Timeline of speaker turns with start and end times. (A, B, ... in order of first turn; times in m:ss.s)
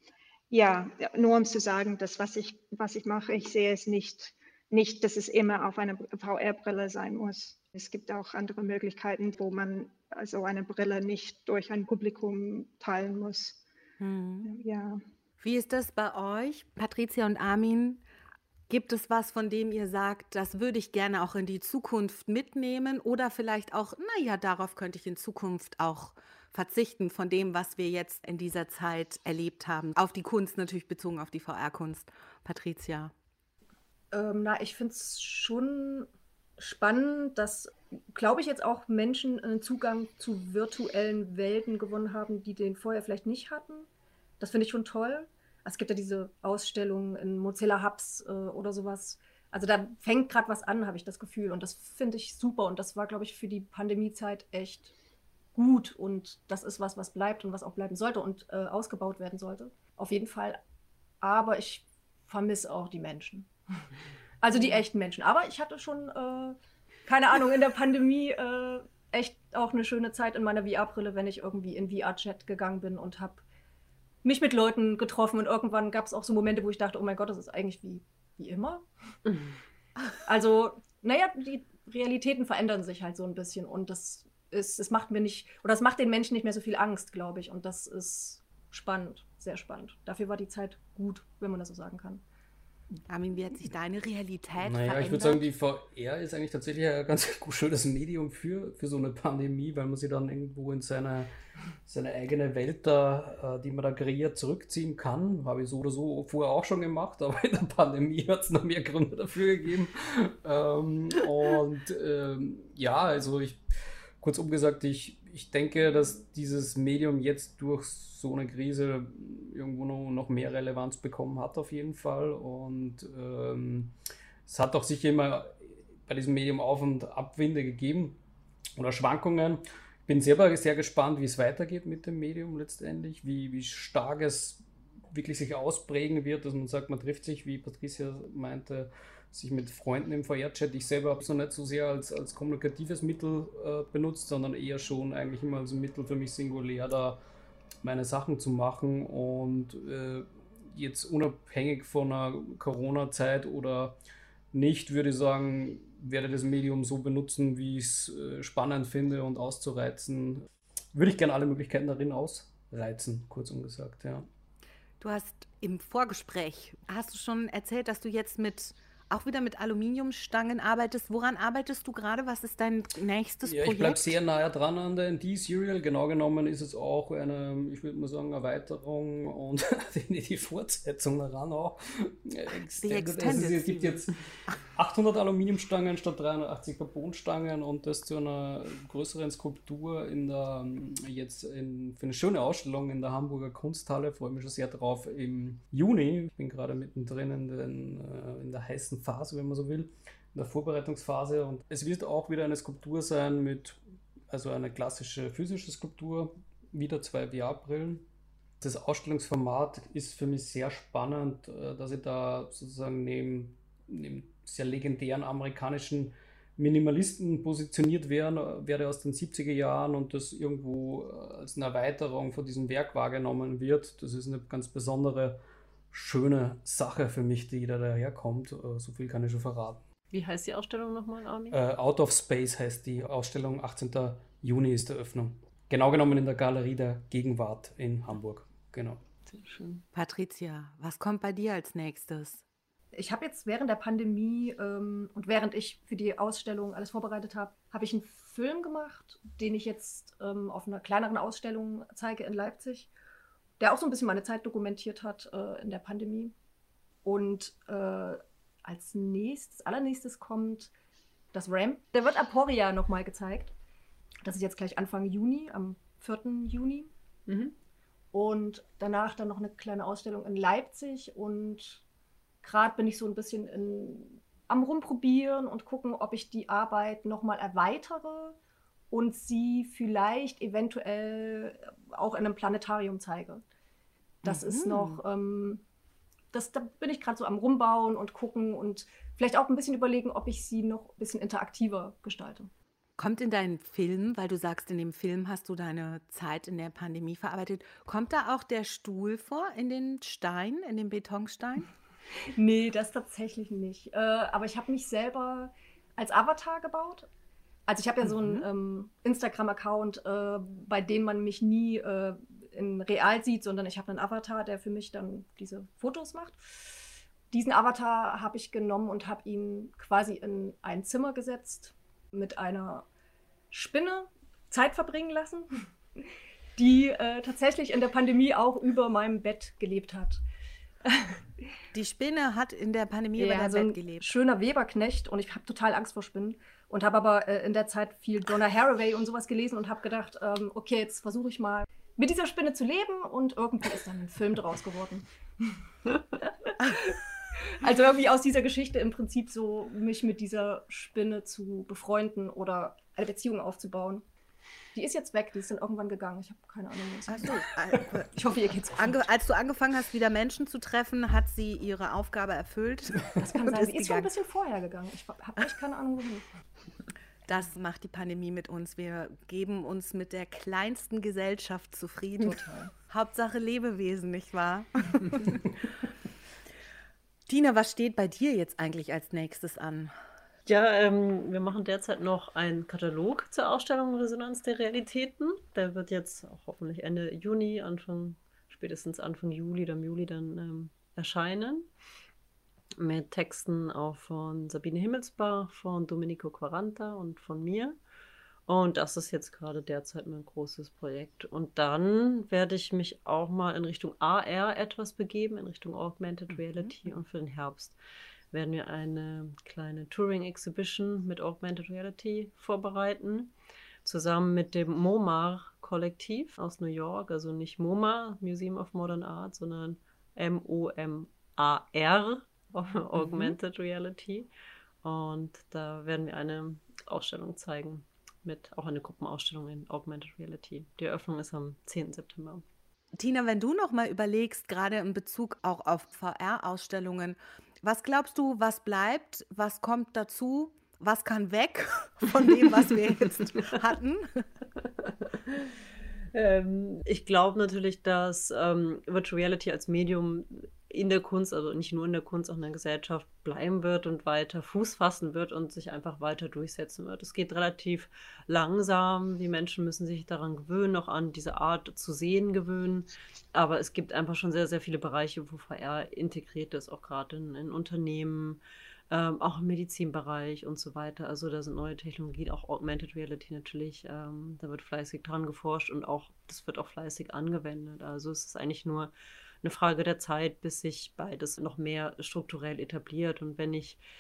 0:00.5-0:13.6 A
0:14.0-0:14.5 B
0:14.4-0:15.0 A
0:15.4-0:18.0 B
0:18.7-0:33.1 B
0:34.1-0:43.9 C
0:44.4-0:54.9 C
0:55.6-1:00.6 C
1:01.2-1:03.9 C
1:04.4-1:13.4 C
1:14.2-1:18.9 C
1:20.2-1:32.2 C
1:33.1-1:35.5 B
1:34.6-1:41.3 D
1:41.9-1:53.6 D
1:54.2-2:03.9 D
2:04.4-2:08.2 D
2:08.8-2:27.2 D
2:27.8-2:34.0 D
2:34.5-2:44.3 D
2:45.0-2:54.2 B
2:53.4-3:04.1 D
3:02.8-3:04.6 B
3:04.7-3:23.8 D
3:24.3-3:28.0 D
3:28.6-3:45.4 D
3:45.9-3:49.8 D
3:50.1-3:51.6 E
3:51.5-3:59.0 D
3:59.3-3:59.8 E
3:59.9-4:02.4 B
4:02.9-4:12.9 C
4:13.6-4:16.3 C
4:17.0-4:20.7 C
4:21.3-4:23.5 C
4:24.2-4:26.9 C
4:28.1-4:31.8 C
4:32.4-4:38.4 C
4:38.9-4:43.4 C
4:44.2-4:45.6 C
4:44.2-4:45.0 B
4:46.3-4:52.5 C
4:53.0-5:01.7 B
5:02.3-5:07.1 C
5:07.7-5:22.9 C
5:23.5-5:30.2 C
5:30.8-5:31.2 C
5:31.7-5:34.2 B
5:33.2-5:54.0 C
5:54.7-5:59.1 C
5:57.1-5:58.2 B
5:58.8-6:04.1 B
6:03.2-6:06.3 C
6:07.3-6:15.5 B
6:12.2-6:12.7 C
6:17.3-6:19.9 B
6:20.5-6:31.7 E
6:32.8-6:37.8 E
6:38.5-6:47.8 E
6:48.3-6:53.3 E
6:53.8-7:04.3 E
7:04.8-7:12.4 E
7:13.0-7:24.2 B
7:24.6-7:25.6 E
7:26.1-8:03.8 E